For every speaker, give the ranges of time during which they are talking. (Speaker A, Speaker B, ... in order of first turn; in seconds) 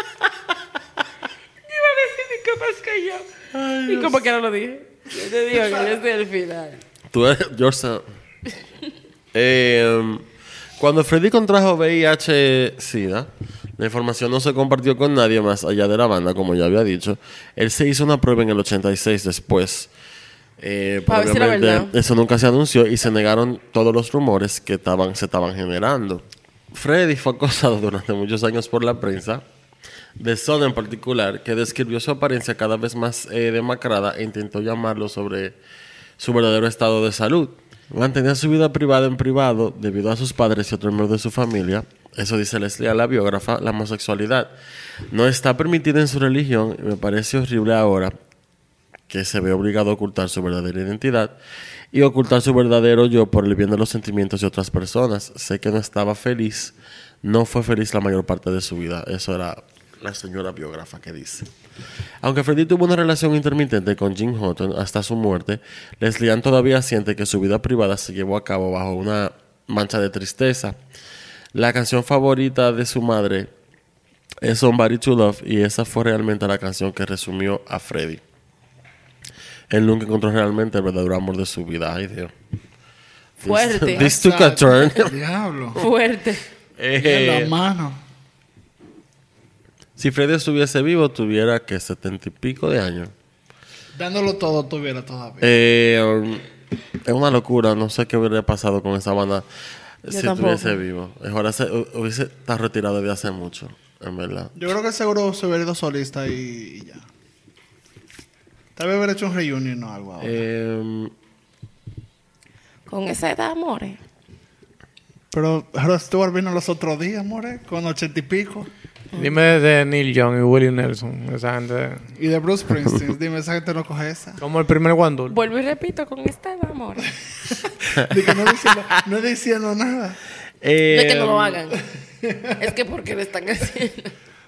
Speaker A: 1.6-3.3, 3.9-6.8, 21.1-21.9, 83.5-84.1, 85.8-86.4, 100.1-100.8, 112.9-114.0, 125.3-127.1, 130.9-131.8, 132.6-134.1
Speaker B: 3.5-4.2, 7.1-8.0, 9.3-10.3, 10.8-19.9, 20.6-29.4, 30.2-35.6, 36.2-44.5, 45.1-48.1, 49.1-51.4, 51.9-61.5, 62.2-70.8, 71.5-73.5, 74.4-78.2, 79.7-82.3, 83.4-85.2, 86.8-87.5, 90.0-93.1, 95.4-96.4, 97.0-99.5, 100.0-104.5, 110.2-111.1, 130.6-131.6
Speaker C: 83.9-85.8, 87.0-88.0, 94.0-95.5, 104.5-107.0, 108.8-110.4, 115.3-118.7, 122.2-124.4, 128.1-130.2, 132.2-132.6
Speaker D: 119.2-122.0, 124.4-125.3